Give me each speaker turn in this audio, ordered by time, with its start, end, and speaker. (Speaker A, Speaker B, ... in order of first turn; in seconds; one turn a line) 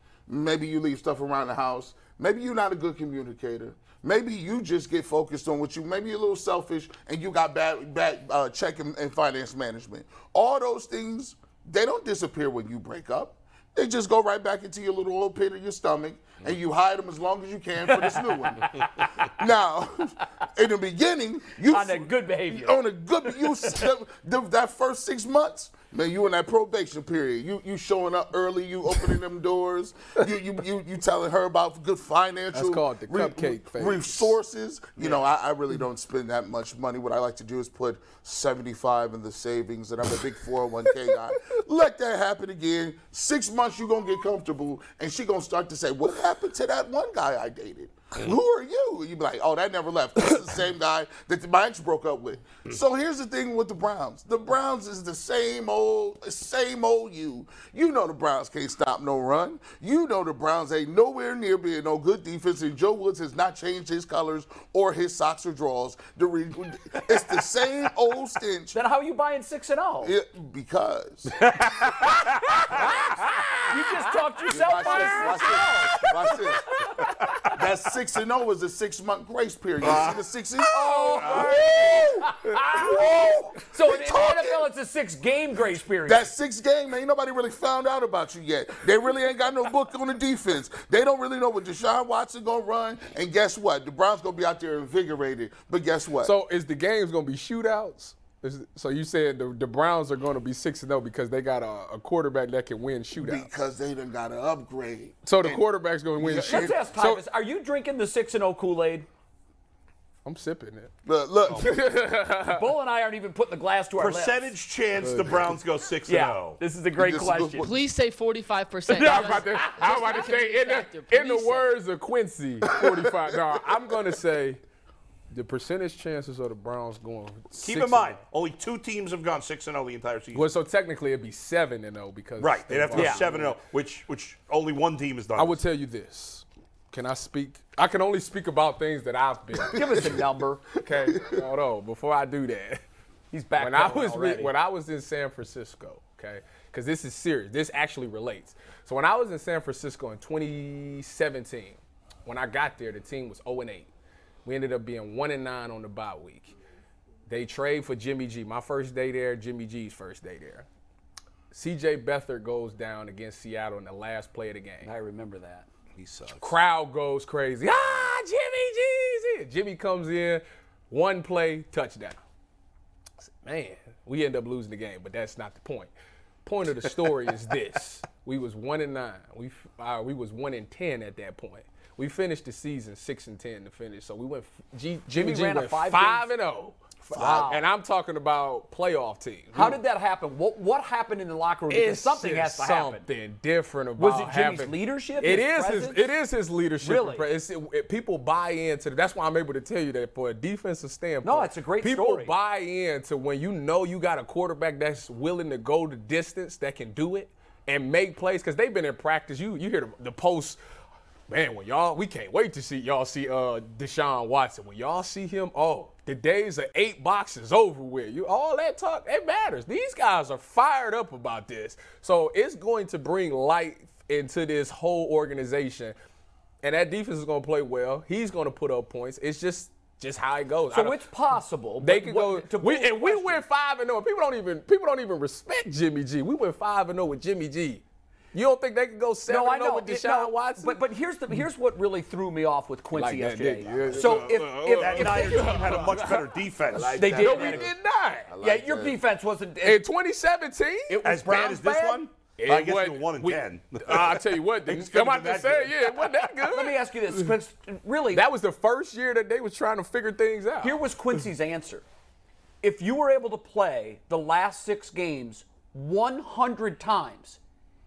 Speaker A: 0.3-68.8
Speaker B: 17.9-19.3
Speaker B: 21.7-23.6
Speaker C: 32.5-34.4
Speaker B: 68.7-70.1
Speaker A: 70.0-71.5
Speaker D: 71.6-72.8
Speaker B: 72.7-77.5
Speaker A: 72.7-73.1
Speaker C: 72.8-73.6
Speaker A: 74.5-76.9
Speaker C: 74.7-75.7
Speaker A: 77.5-84.7
Speaker D: 79.9-80.1
Speaker B: 80.7-86.3
Speaker C: 80.7-82.6
Speaker A: 86.0-96.3
Speaker C: 96.2-103.5
Speaker A: 103.2-105.7
Speaker C: 105.2-107.2
Speaker A: 106.2-106.8
Speaker B: 106.4-109.1
Speaker C: 110.2-110.9
Speaker A: 111.0-111.8
Speaker C: 111.5-112.7
Speaker B: 112.5-114.5
Speaker D: 114.0-116.6
Speaker C: 115.0-115.6
Speaker B: 116.1-117.7
Speaker A: 117.0-117.8
Speaker E: 117.6-121.8
Speaker B: 118.9-119.7
Speaker C: 118.9-124.6
Speaker C: 125.3-128.2
Speaker D: 127.6-130.5
Speaker C: 130.3-133.6
Speaker D: 132.4-135.6
Speaker B: 132.9-133.2
Speaker C: 135.4-140.0
Speaker A: 139.7-140.2
Speaker B: 139.7-140.6
Speaker C: 140.8-142.8
Speaker A: 140.9-141.4
Speaker B: 143.3-144.5
Speaker C: 143.6-153.9
Speaker C: 154.4-156.5
Speaker C: 157.3-160.7
Speaker C: 161.5-164.9
Speaker B: 164.8-165.7
Speaker D: 166.0-166.5
Speaker C: 166.4-172.2
Speaker C: 173.2-175.9
Speaker C: 176.4-189.8
Speaker B: 185.1-186.3
Speaker A: 187.1-187.5
Speaker B: 187.2-187.7
Speaker B: 189.5-193.1
Speaker C: 191.7-210.6
Speaker B: 194.0-196.1
Speaker B: 196.8-197.3
Speaker B: 201.2-202.3
Speaker C: 211.3-225.9
Speaker C: 226.6-231.0
Speaker B: 230.7-233.4
Speaker C: 231.8-237.8
Speaker C: 238.3-240.8
Speaker B: 239.3-245.9
Speaker C: 242.9-246.3
Speaker A: 243.7-244.2
Speaker D: 244.7-247.0
Speaker A: 246.7-247.7
Speaker B: 246.9-247.7
Speaker C: 247.0-248.3
Speaker A: 248.3-249.0
Speaker B: 248.4-249.8
Speaker C: 249.6-251.0
Speaker B: 250.9-252.0
Speaker D: 251.0-256.2
Speaker C: 252.4-257.3
Speaker B: 256.5-258.2
Speaker C: 258.1-260.8
Speaker B: 260.6-261.9
Speaker B: 262.6-267.4